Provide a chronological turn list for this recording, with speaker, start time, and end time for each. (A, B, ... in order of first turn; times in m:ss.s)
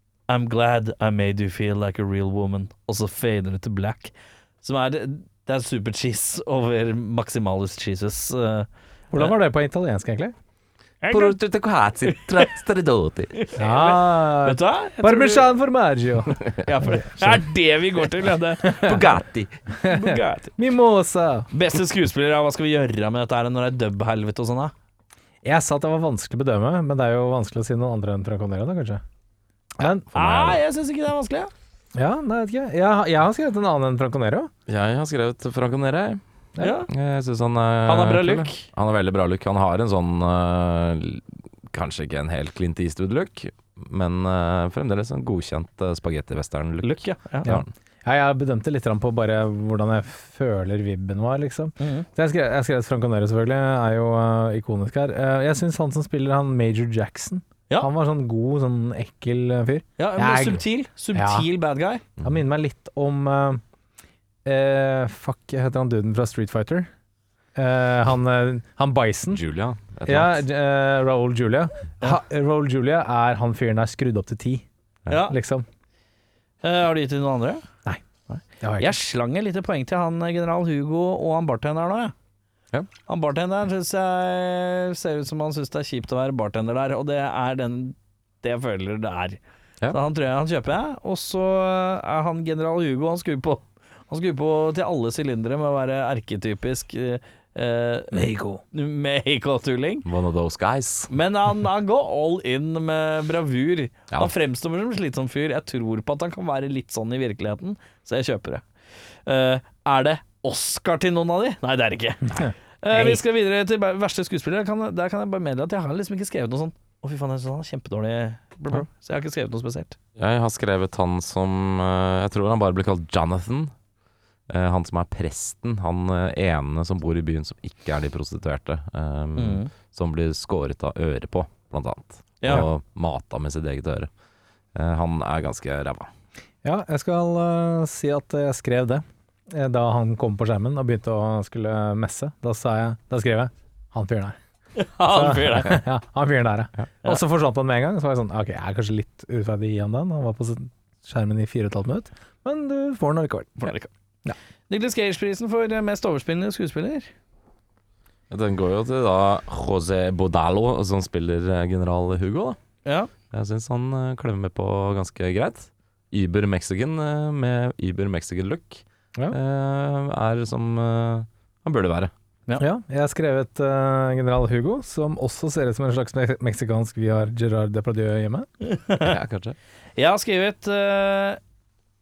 0:00.3-0:09.3 A
0:09.1-0:10.3 B
0:11.0-0:11.4 A
0:11.1-0:13.4 C
0:12.1-0:12.5 A
0:13.4-0:15.5 A
0:13.6-0:16.4 B
0:16.6-0:18.9 A
0:18.7-0:19.0 B
0:18.8-0:19.6 C
0:19.8-0:21.5 B
0:19.8-0:20.5 A
0:21.5-0:24.7 A
0:25.4-0:29.0 B
0:29.8-0:30.1 B
0:30.1-0:31.5 A
0:30.2-0:30.6 C
0:32.0-0:34.5 B
0:34.7-0:36.2 C
0:36.6-0:36.9 A
0:36.9-0:47.7 C
0:37.9-0:38.7 A
0:46.8-0:47.5 A
0:47.4-1:01.5 B
0:51.8-0:52.1 A
1:00.0-1:02.0 A
1:02.2-1:03.6 B
1:04.4-1:06.9 B
1:07.6-1:09.4 B
1:09.3-1:10.4 C
1:10.1-1:14.6 B
1:15.1-1:15.4 A
1:15.3-1:15.6 B
1:16.6-1:17.6 A
1:18.3-1:22.1 A
1:18.6-1:19.0 B
1:23.1-1:29.4 A
1:29.9-1:40.1 A
1:38.1-1:38.6 B
1:40.0-1:41.1 C
1:41.1-1:48.6 A
1:49.3-2:00.0 A
1:52.3-1:53.2 B
2:00.2-2:03.7 C
2:04.5-2:14.1 C
2:09.4-2:09.7 A
2:12.4-2:12.7 A
2:14.8-2:16.1 C
2:16.6-2:24.4 B
2:24.8-2:25.8 A
2:25.0-2:33.7 B
2:33.6-2:33.9 A
2:34.7-2:37.1 A
2:38.3-2:42.6 C
2:42.8-2:43.1 A
2:43.3-2:52.1 C
2:52.6-2:58.5 B
2:58.6-2:59.1 A
2:59.0-2:59.6 C
3:00.0-3:01.4 A